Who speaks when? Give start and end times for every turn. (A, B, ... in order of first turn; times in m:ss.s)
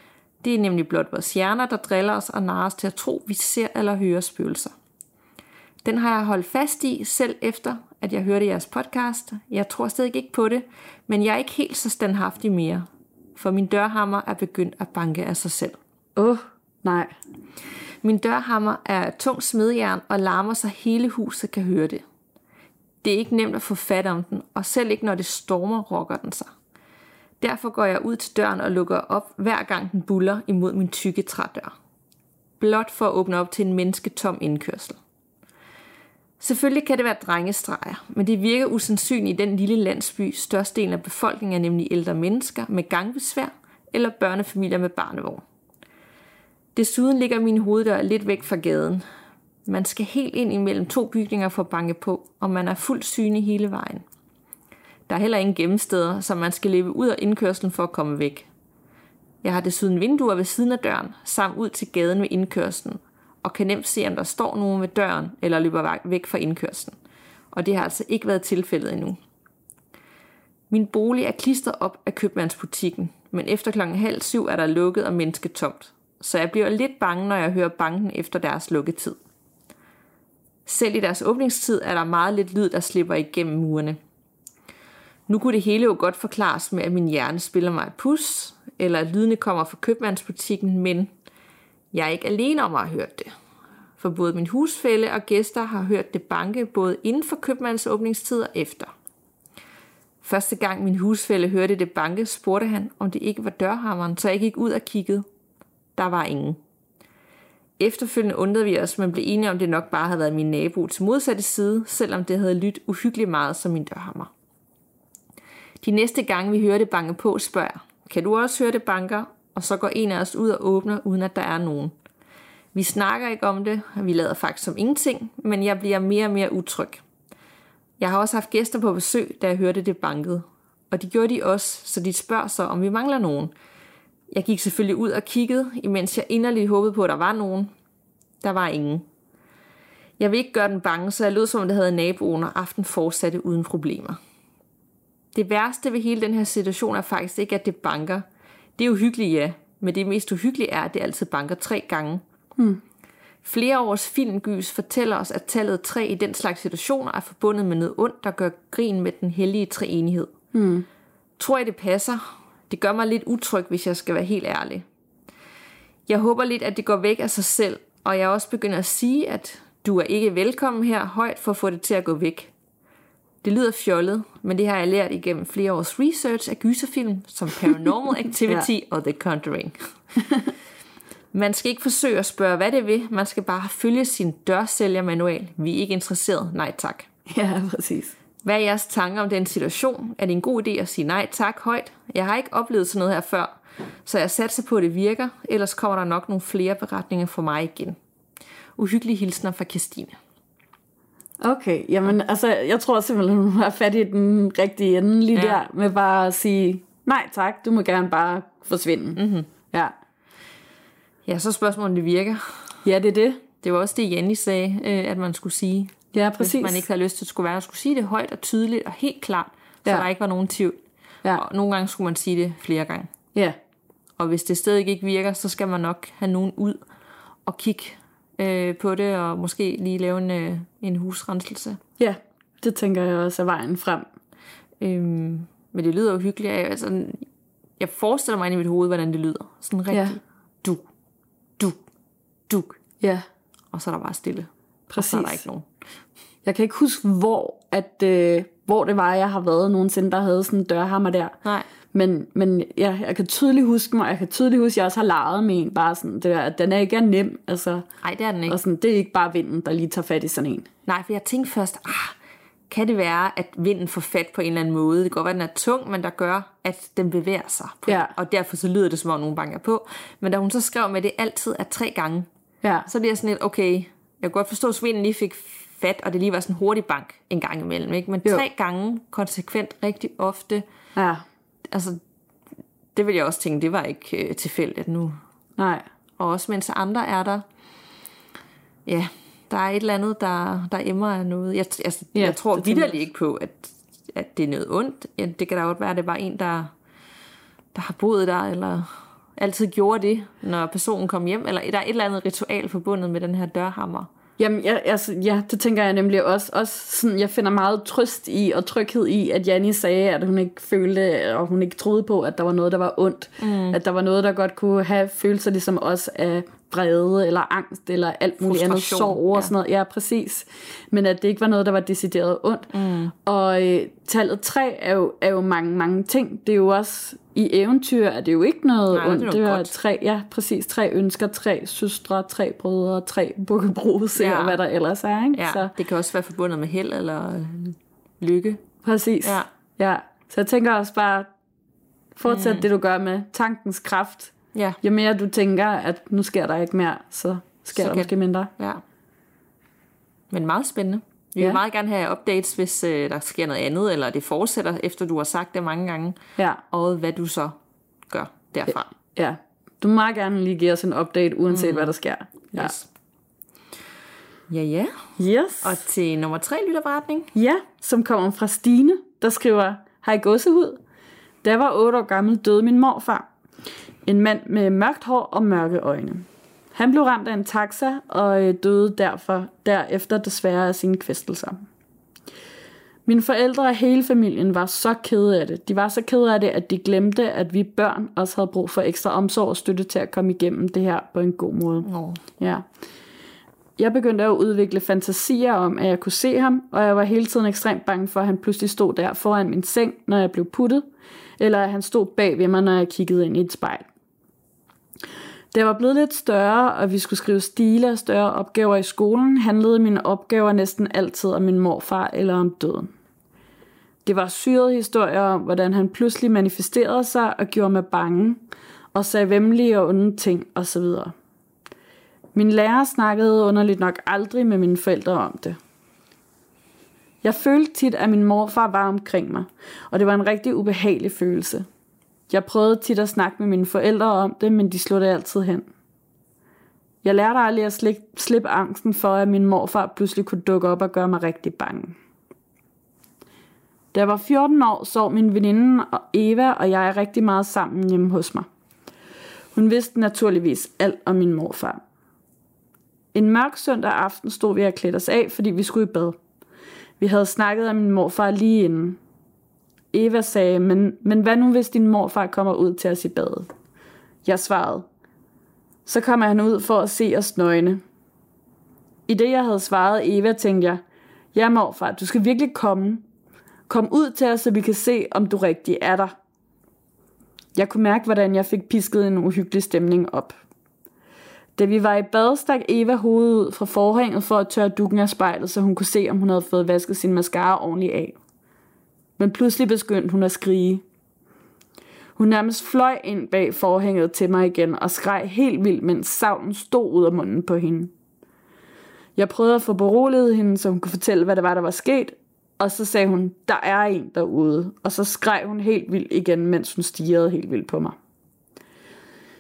0:00.4-0:04.7 A
0:05.8-0:15.8 A
0:16.2-0:17.1 B
0:18.0-0:22.0 A
0:23.0-0:26.5 A
0:27.4-0:31.7 A
0:32.6-0:35.0 A
0:36.4-0:45.4 A
0:46.8-0:49.0 A
0:49.6-0:54.0 A
0:55.1-0:58.5 A
0:59.4-1:07.0 A
1:07.5-1:09.2 A
1:10.7-1:19.2 A
1:20.6-1:24.0 A
1:25.3-1:31.1 A
1:31.9-1:33.3 A
1:34.0-1:38.9 A
1:40.2-1:45.2 A
1:46.0-1:46.6 A
1:47.8-1:54.3 A
1:55.8-2:01.9 A
2:02.7-2:07.0 A
2:08.0-2:13.5 A
2:14.3-2:17.7 A
2:18.4-2:19.0 A
2:20.2-2:24.2 A
2:25.3-2:28.2 A
2:28.8-2:32.2 A
2:33.4-2:40.3 A
2:40.5-2:40.8 B
2:41.4-2:44.8 A
2:46.1-2:52.5 A
2:53.4-2:59.8 A
3:00.2-3:00.5 B
3:01.3-3:07.1 A
3:07.3-3:08.1 B
3:08.4-3:18.0 A
3:18.8-3:20.2 A
3:21.4-3:29.2 B
3:25.3-3:25.6 A
3:29.2-3:29.5 A
3:31.2-3:32.8 A
3:32.8-3:33.4 B
3:33.6-3:40.8 A
3:36.1-3:36.8 B
3:41.3-3:43.1 A
3:44.2-3:46.8 A
3:47.4-3:51.8 A
3:52.0-3:54.1 B
3:54.8-3:57.2 A
3:57.8-4:00.8 A
3:59.9-4:00.2 B
4:02.5-4:02.8 A
4:03.0-4:03.2 B
4:03.7-4:05.7 A
4:04.9-4:05.4 B
4:06.4-4:11.4 B
4:11.9-4:17.8 B
4:18.0-4:18.6 A
4:18.5-4:20.7 B
4:20.8-4:22.1 A
4:22.7-4:32.3 A
4:27.9-4:28.1 B
4:32.8-4:40.6 A
4:41.0-4:41.2 B
4:41.7-4:42.0 A
4:42.9-4:45.2 A
4:45.6-4:45.8 B
4:46.2-4:47.4 A
4:48.9-4:56.7 A
4:52.1-4:53.0 B
4:57.7-5:04.1 A
5:04.4-5:22.7 B
5:13.4-5:13.8 A
5:18.4-5:19.5 A
5:22.7-5:23.1 A
5:23.2-5:35.7 B
5:28.9-5:29.7 A
5:34.2-5:34.6 A
5:35.3-5:38.6 A
5:38.8-5:41.3 B
5:39.2-5:39.5 A
5:42.2-5:48.5 B
5:42.2-5:42.6 A
5:47.7-5:48.8 A
5:50.3-5:56.2 A
5:56.7-5:57.6 A
5:58.1-5:58.9 A
5:59.1-6:02.7 B
6:01.5-6:01.9 A
6:02.5-6:02.9 A
6:04.5-6:05.0 A
6:05.2-6:05.8 B
6:05.6-6:07.3 A
6:07.3-6:10.8 B
6:11.4-6:13.3 B
6:14.0-6:21.6 B
6:23.1-6:32.6 B
6:31.8-6:32.2 A
6:33.8-6:40.8 B
6:41.4-6:43.9 B
6:45.5-6:52.9 B
6:54.0-6:58.4 B
6:58.9-7:01.1 B
7:02.3-7:05.6 B
7:07.2-7:11.6 B
7:12.3-7:15.7 B
7:17.0-7:22.0 B
7:23.9-7:28.4 B
7:29.5-7:31.8 B
7:33.1-7:36.2 B
7:37.0-7:39.0 B
7:39.9-7:43.5 B
7:44.2-7:44.9 B
7:45.8-7:47.8 B
7:49.1-7:50.8 B
7:51.3-7:53.0 B
7:53.7-7:56.1 B
7:57.5-8:00.3 B
8:01.6-8:08.2 B
8:09.2-8:10.8 B
8:12.2-8:17.9 B
8:19.2-8:28.0 B